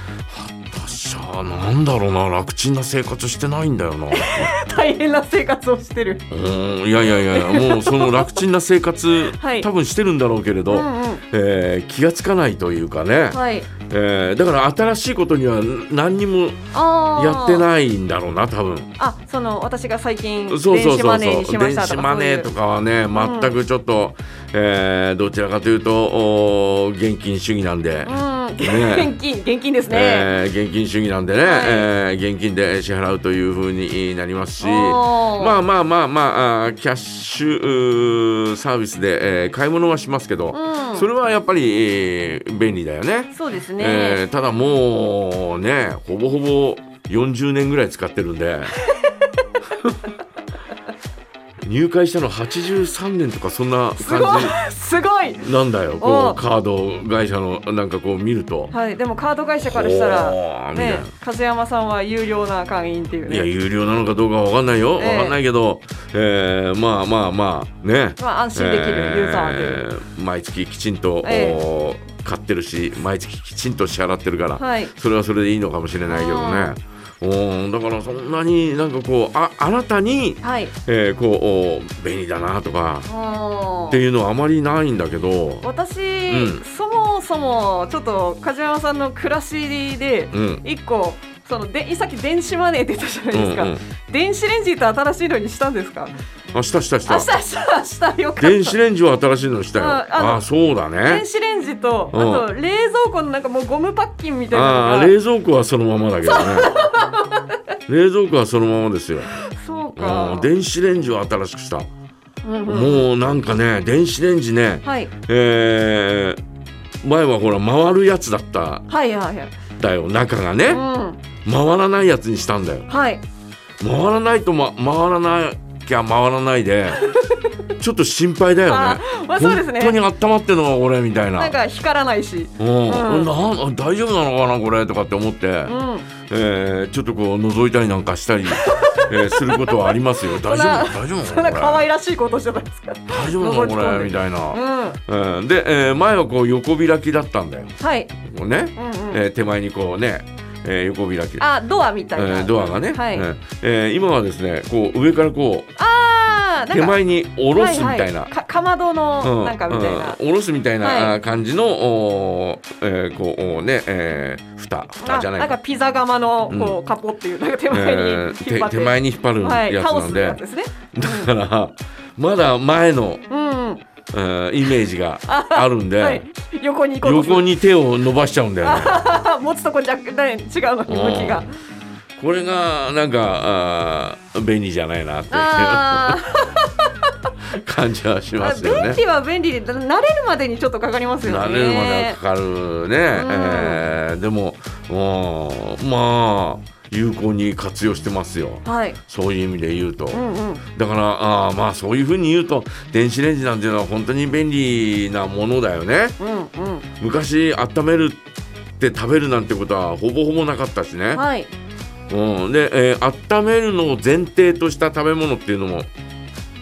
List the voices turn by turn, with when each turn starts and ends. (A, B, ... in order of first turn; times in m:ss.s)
0:00.3-0:04.5 A
0:04.1-0:06.2 B
0:06.3-0:16.6 A
0:07.3-0:08.4 B
0:09.3-0:09.7 B
0:10.7-0:11.2 B
0:13.3-0:13.7 B
0:16.7-0:17.6 B
0:17.2-0:18.9 A
0:19.0-0:22.5 B
0:20.5-0:29.1 A
0:23.1-0:23.5 B
0:28.0-0:30.3 B
0:29.9-0:48.8 A
0:31.4-0:31.9 B
0:34.6-0:35.6 B
0:40.5-0:41.1 B
0:43.3-0:44.2 B
0:51.6-0:54.5 A
0:54.0-0:55.5 B
0:55.4-0:58.7 A
0:56.0-0:56.4 B
0:58.7-1:03.5 B
0:59.6-1:01.1 A
1:03.3-1:23.1 A
1:05.0-1:05.4 B
1:08.2-1:09.8 B
1:11.2-1:11.6 B
1:14.6-1:14.9 B
1:16.1-1:16.7 B
1:20.4-1:20.7 B
1:23.0-1:24.0 B
1:23.9-1:25.7 A
1:25.6-1:36.1 B
1:26.3-1:26.6 A
1:30.3-1:30.6 A
1:33.3-1:33.8 A
1:36.5-1:37.3 A
1:37.0-1:38.8 B
1:38.4-1:41.2 A
1:39.8-1:40.5 B
1:41.0-1:45.2 B
1:42.1-1:42.4 A
1:44.5-1:46.7 A
1:46.2-1:47.4 B
1:47.9-1:49.3 A
1:49.3-1:50.5 B
1:50.0-1:51.9 A
1:52.4-1:53.1 B
1:52.7-1:56.4 A
1:54.8-1:55.1 B
1:57.0-1:58.8 A
1:58.9-1:59.5 B
1:59.8-2:00.8 A
2:00.7-2:01.2 B
2:01.4-2:02.9 A
2:02.9-2:03.2 B
2:03.8-2:07.0 A
2:07.0-2:07.3 B
2:07.8-2:11.6 A
2:08.6-2:10.0 B
2:11.4-2:13.3 B
2:12.6-2:15.7 A
2:15.6-2:16.1 B
2:16.3-2:21.8 A
2:18.5-2:25.0 B
2:23.1-2:31.4 A
2:27.8-2:28.1 B
2:28.8-2:29.2 B
2:31.4-2:33.3 B
2:32.1-2:35.7 A
2:35.8-2:37.0 B
2:36.7-2:38.3 A
2:37.5-2:40.2 B
2:39.2-2:45.5 A
2:40.8-2:41.1 B
2:45.0-2:51.3 B
2:46.5-2:46.8 A
2:47.7-2:50.4 A
2:50.9-2:53.2 A
2:53.3-2:53.8 B
2:54.1-2:56.2 A
2:55.3-2:57.5 B
2:57.0-2:59.0 A
2:58.6-3:01.5 B
3:00.9-3:01.5 A
3:02.2-3:06.2 A
3:05.3-3:07.1 B
3:07.5-3:09.0 A
3:08.4-3:12.2 B
3:11.2-3:26.2 A
3:13.1-3:13.8 B
3:18.6-3:19.0 B
3:20.1-3:20.6 B
3:26.2-3:26.9 B
3:27.0-3:28.2 A
3:28.8-3:31.2 A
3:31.1-3:31.5 B
3:32.1-3:35.9 A